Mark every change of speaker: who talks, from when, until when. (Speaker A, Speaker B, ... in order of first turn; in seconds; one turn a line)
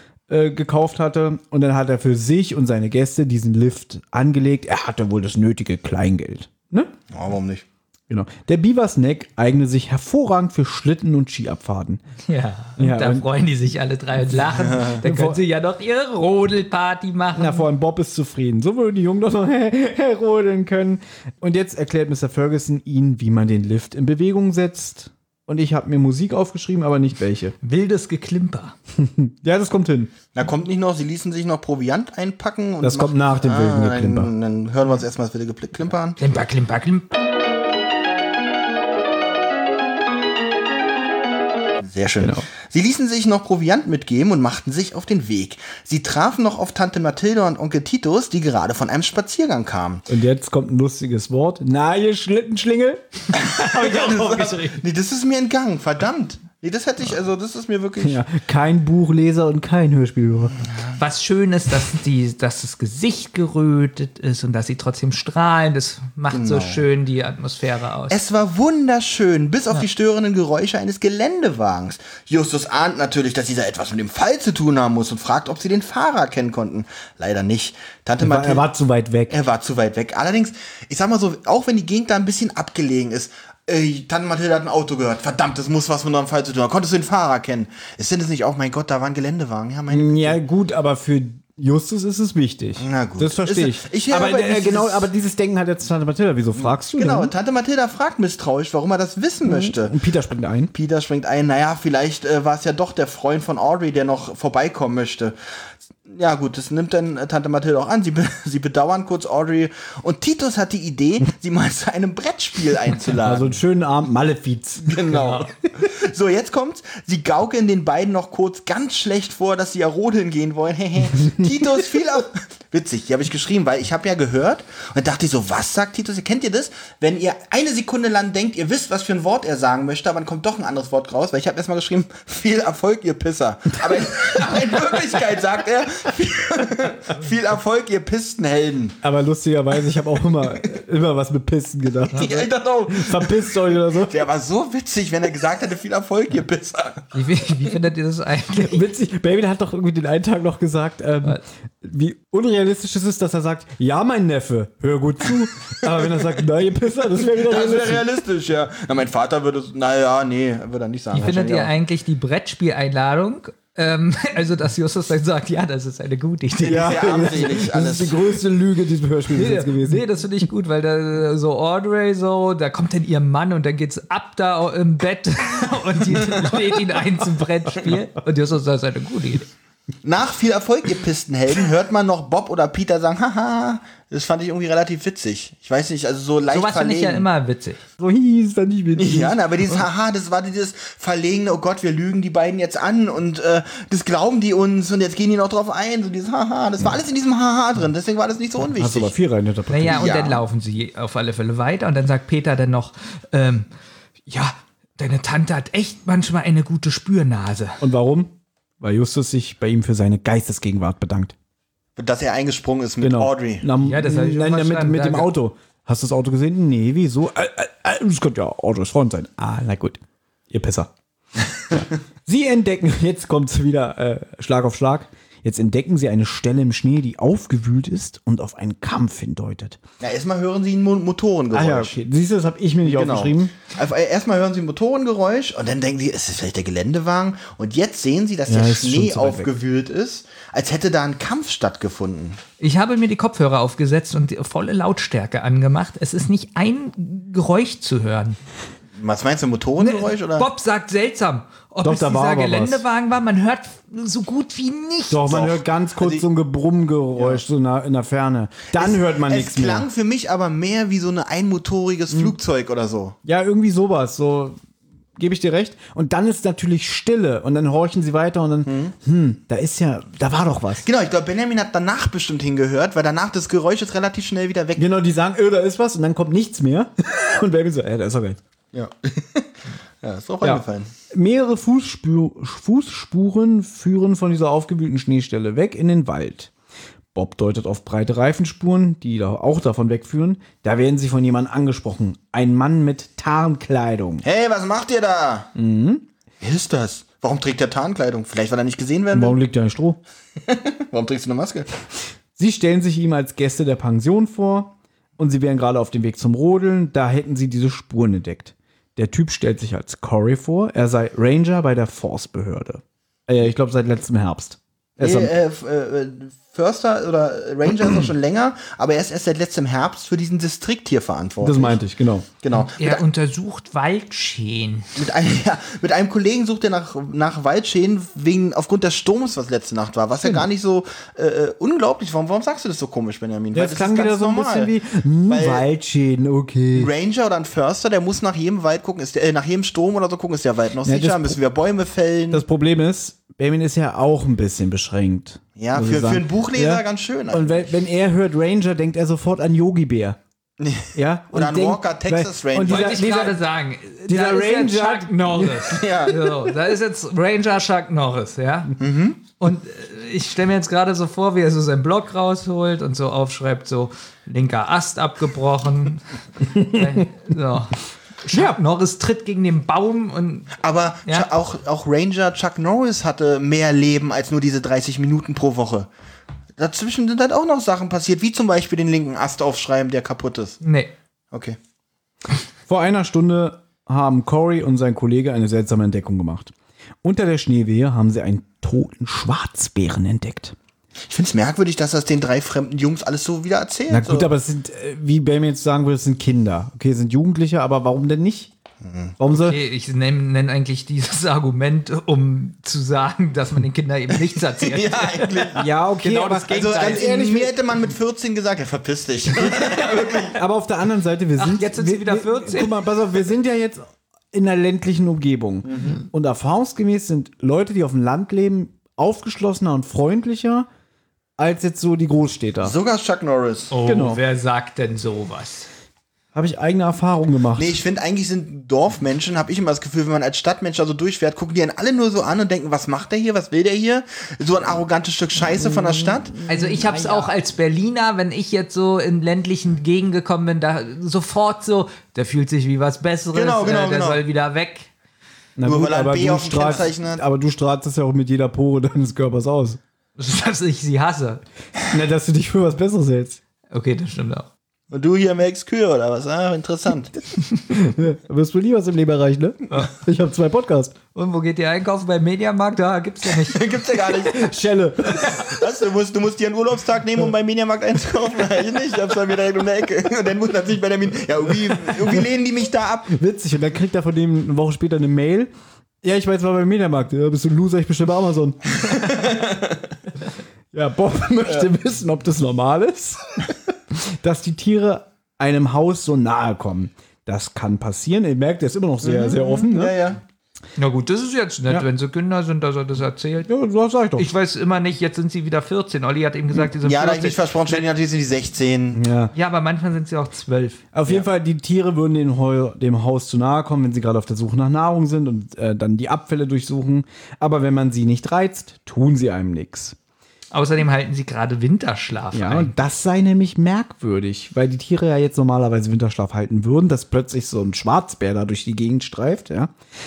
Speaker A: 0.3-6.9
Speaker B: 7.1-7.6
Speaker A: 8.1-12.0
Speaker C: 12.2-17.7
Speaker A: 12.8-13.3
Speaker B: 14.6-15.0
Speaker A: 15.0-15.4
Speaker A: 17.3-27.5
Speaker C: 27.6-28.8
Speaker A: 28.9-30.1
Speaker B: 30.3-36.2
Speaker A: 32.8-34.3
Speaker C: 36.2-37.1
Speaker B: 41.8-50.0
Speaker A: 42.2-42.4
Speaker A: 50.1-54.7
Speaker B: 53.4-58.2
Speaker C: 53.4-54.6
Speaker A: 58.0-60.6
Speaker B: 60.6-60.9
Speaker C: 61.0-68.2
Speaker B: 66.3-66.8
Speaker B: 68.1-78.7
Speaker A: 78.2-79.4
Speaker B: 79.3-90.4
Speaker A: 89.9-97.3
Speaker B: 92.8-95.1
Speaker B: 96.6-99.9
Speaker A: 99.4-100.7
Speaker B: 100.7-105.3
Speaker B: 106.1-113.5
Speaker A: 113.2-115.4
Speaker B: 114.8-139.0
Speaker A: 139.0-144.2
Speaker C: 142.1-142.4
Speaker B: 142.1-147.1
Speaker C: 147.1-148.8
Speaker A: 148.6-158.0
Speaker B: 157.2-161.7
Speaker C: 161.1-167.1
Speaker A: 166.6-170.1
Speaker B: 166.7-168.4
Speaker C: 169.3-179.5
Speaker B: 180.0-187.2
Speaker C: 186.5-187.8
Speaker A: 188.0-189.4
Speaker B: 188.9-199.1
Speaker A: 198.8-200.1
Speaker C: 199.7-203.7
Speaker B: 199.9-200.4
Speaker C: 204.3-207.8
Speaker A: 207.8-211.3
Speaker B: 211.9-213.7
Speaker A: 213.0-220.9
Speaker C: 213.8-215.3
Speaker A: 221.7-229.8
Speaker B: 230.0-231.9
Speaker A: 231.5-233.5
Speaker B: 232.8-242.4
Speaker A: 238.5-239.5
Speaker C: 242.6-248.4
Speaker B: 248.9-250.5
Speaker C: 249.8-255.2
Speaker A: 251.8-252.8
Speaker A: 255.1-259.9
Speaker B: 255.3-256.2
Speaker B: 257.1-257.4
Speaker B: 258.7-263.2
Speaker A: 263.2-264.6
Speaker A: 265.2-270.8
Speaker B: 268.6-268.9
Speaker B: 270.8-274.9
Speaker A: 274.8-278.4
Speaker B: 278.7-280.9
Speaker A: 280.4-286.5
Speaker A: 287.1-294.2
Speaker B: 294.2-295.5
Speaker A: 295.6-296.0
Speaker B: 296.4-299.4
Speaker A: 299.1-300.0
Speaker B: 300.4-301.7
Speaker A: 302.4-315.3
Speaker B: 315.0-321.8
Speaker A: 321.4-322.3
Speaker B: 322.4-323.0
Speaker C: 322.6-325.0
Speaker B: 324.9-334.7
Speaker A: 333.5-336.9
Speaker B: 335.2-335.7
Speaker B: 336.7-342.4
Speaker A: 340.8-341.4
Speaker A: 342.3-350.2
Speaker B: 345.6-347.7
Speaker B: 350.6-353.1
Speaker A: 350.9-353.4
Speaker C: 352.6-358.7
Speaker A: 354.1-355.7
Speaker B: 355.6-356.4
Speaker B: 358.8-359.2
Speaker C: 359.4-371.3
Speaker A: 368.3-368.6
Speaker B: 370.6-375.9
Speaker B: 376.6-380.6
Speaker C: 380.6-380.9
Speaker B: 381.3-381.6
Speaker A: 382.7-386.5
Speaker A: 387.0-390.6
Speaker B: 391.1-394.3
Speaker A: 393.9-398.5
Speaker B: 398.8-399.1
Speaker A: 399.2-399.6
Speaker C: 399.3-407.0
Speaker B: 404.6-405.7
Speaker A: 405.5-407.6
Speaker B: 406.5-410.4
Speaker A: 410.3-420.7
Speaker C: 411.4-412.8
Speaker B: 415.6-416.0
Speaker A: 421.4-422.7
Speaker B: 422.6-423.7
Speaker C: 423.7-425.7
Speaker A: 423.8-424.2
Speaker A: 426.3-427.8
Speaker B: 427.6-436.4
Speaker A: 435.6-437.3
Speaker C: 436.5-444.9
Speaker B: 443.3-444.2
Speaker A: 445.6-449.8
Speaker B: 445.6-447.2
Speaker C: 450.2-451.4
Speaker A: 451.9-453.4
Speaker C: 453.7-454.5
Speaker B: 454.9-457.2
Speaker A: 457.7-460.9
Speaker C: 461.1-463.6
Speaker B: 463.5-464.5
Speaker A: 464.2-465.6
Speaker B: 465.2-473.1
Speaker A: 473.1-475.5
Speaker A: 476.0-478.8
Speaker B: 478.9-479.7
Speaker A: 480.7-489.9
Speaker B: 489.0-490.2
Speaker C: 490.8-493.5
Speaker A: 493.5-494.3
Speaker C: 494.2-497.9
Speaker B: 496.8-499.0
Speaker A: 498.9-499.3
Speaker C: 499.3-500.8
Speaker A: 500.9-509.9
Speaker C: 510.5-512.7
Speaker A: 512.3-519.7